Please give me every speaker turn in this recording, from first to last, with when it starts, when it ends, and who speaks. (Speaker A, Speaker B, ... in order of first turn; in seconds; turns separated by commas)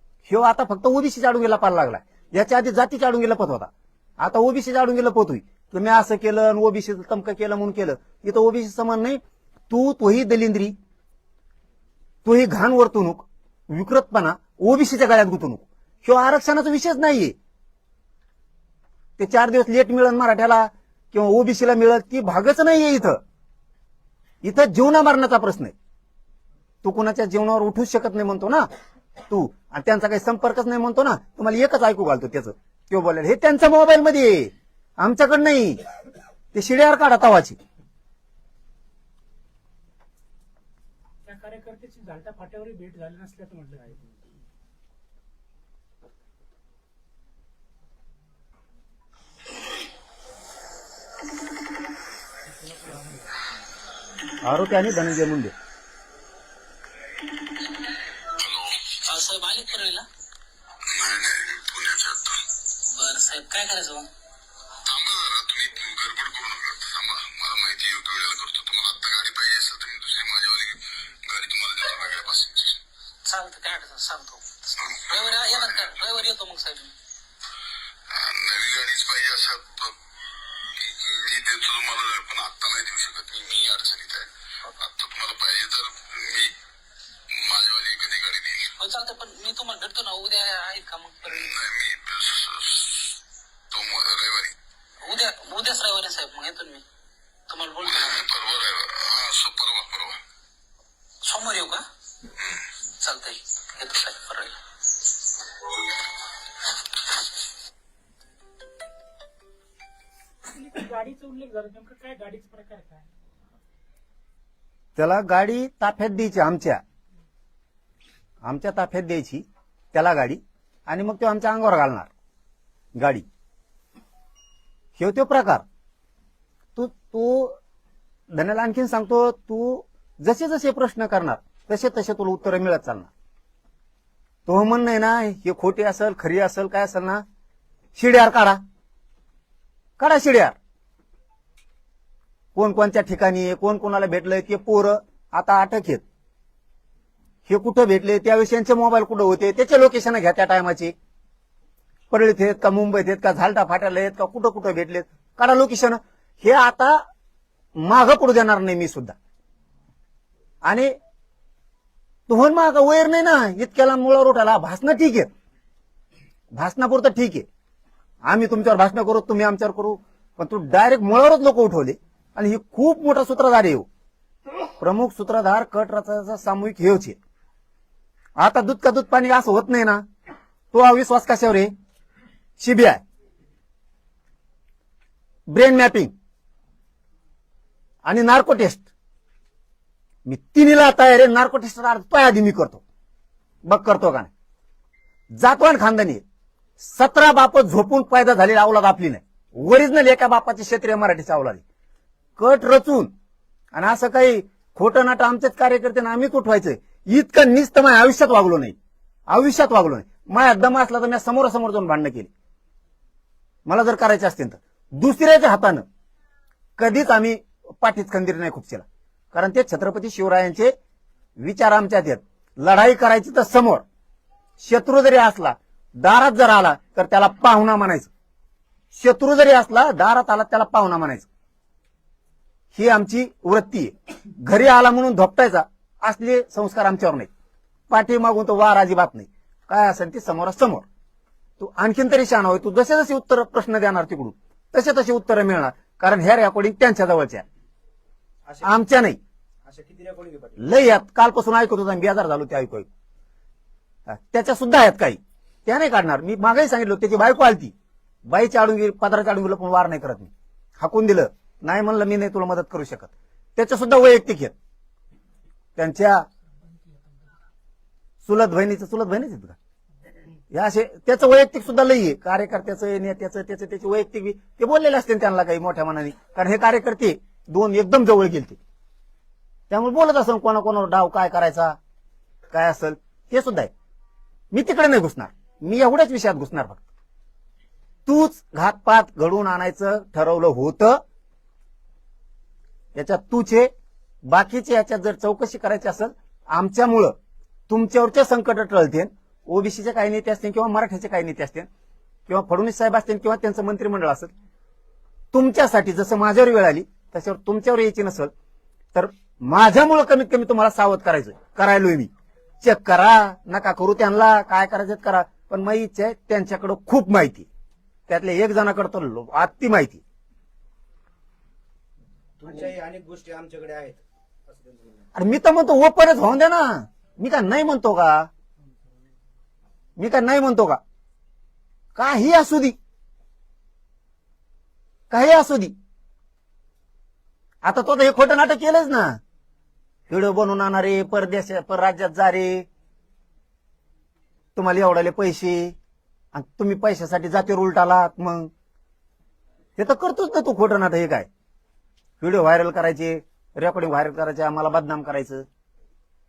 Speaker A: 0.3-10.7, Speaker A: 12.2-17.3, Speaker A: 19.2-23.2, Speaker A: 24.4-25.7, Speaker A: 26.8-28.7, Speaker A: 29.3-35.8, Speaker A: 36.5-37.6, Speaker B: 41.3-43.9, Speaker A: 54.4-55.5, Speaker C: 58.4-58.8, Speaker D: 59.0-60.0, Speaker C: 60.9-62.4, Speaker D: 62.9-64.1, Speaker C: 64.9-72.8, Speaker D: 73.3-74.5, Speaker C: 74.8-76.0, Speaker D: 75.0-76.9, Speaker C: 78.1-80.0, Speaker C: 80.6-86.5, Speaker C: 87.3-88.6, Speaker D: 88.8-91.6, Speaker C: 91.3-93.2, Speaker C: 93.7-94.6, Speaker D: 95.0-96.8, Speaker D: 97.5-98.3, Speaker C: 97.8-100.2, Speaker D: 101.2-101.8, Speaker D: 103.0-104.5, Speaker B: 110.5-113.1, Speaker A: 115.0-116.8, Speaker A: 118.4-122.1, Speaker A: 123.0-123.2, Speaker A: 125.0-125.7, Speaker A: 126.8-127.6, Speaker A: 128.3-133.1, Speaker A: 134.5-137.2, Speaker A: 138.0-138.6, Speaker A: 140.0-140.6, Speaker A: 142.6-146.0, Speaker A: 147.5-150.9, Speaker A: 152.1-157.0, Speaker A: 157.8-159.2, Speaker A: 160.7-160.9, Speaker A: 162.3-165.3, Speaker A: 166.6-167.5, Speaker A: 168.3-173.9, Speaker A: 174.8-177.2, Speaker A: 178.4-180.0, Speaker A: 180.7-181.7, Speaker A: 182.6-183.0, Speaker A: 185.5-186.1, Speaker A: 188.1-188.9, Speaker A: 190.3-192.8, Speaker A: 193.7-194.3, Speaker A: 195.3-196.2, Speaker A: 196.8-201.6, Speaker A: 202.4-203.1, Speaker A: 203.7-208.8, Speaker A: 209.3-212.3, Speaker A: 213.7-215.8, Speaker A: 216.8-220.7, Speaker A: 221.4-223.8, Speaker A: 224.6-228.1, Speaker A: 228.9-231.3, Speaker A: 232.7-237.3, Speaker A: 237.9-240.8, Speaker A: 241.6-247.4, Speaker E: 248.5-248.8, Speaker A: 248.6-249.2, Speaker E: 249.7-250.7, Speaker A: 250.6-252.9, Speaker A: 254.1-257.7, Speaker A: 258.3-264.5, Speaker A: 265.8-266.3, Speaker A: 268.2-269.6, Speaker A: 270.5-278.6, Speaker A: 279.7-281.8, Speaker A: 282.5-283.7, Speaker A: 284.5-286.8, Speaker A: 288.1-291.0, Speaker A: 292.9-293.7, Speaker A: 294.3-297.1, Speaker A: 297.7-301.7, Speaker A: 302.3-304.3, Speaker A: 305.3-308.3, Speaker A: 308.9-312.1, Speaker A: 312.6-317.5, Speaker A: 318.1-320.0, Speaker E: 322.4-325.1, Speaker A: 325.1-328.3, Speaker A: 330.0-330.8, Speaker A: 331.9-332.8, Speaker A: 335.1-335.8, Speaker A: 337.6-339.2, Speaker A: 340.1-342.7, Speaker A: 344.6-345.8, Speaker A: 346.3-348.5, Speaker A: 349.8-351.3, Speaker A: 352.2-355.4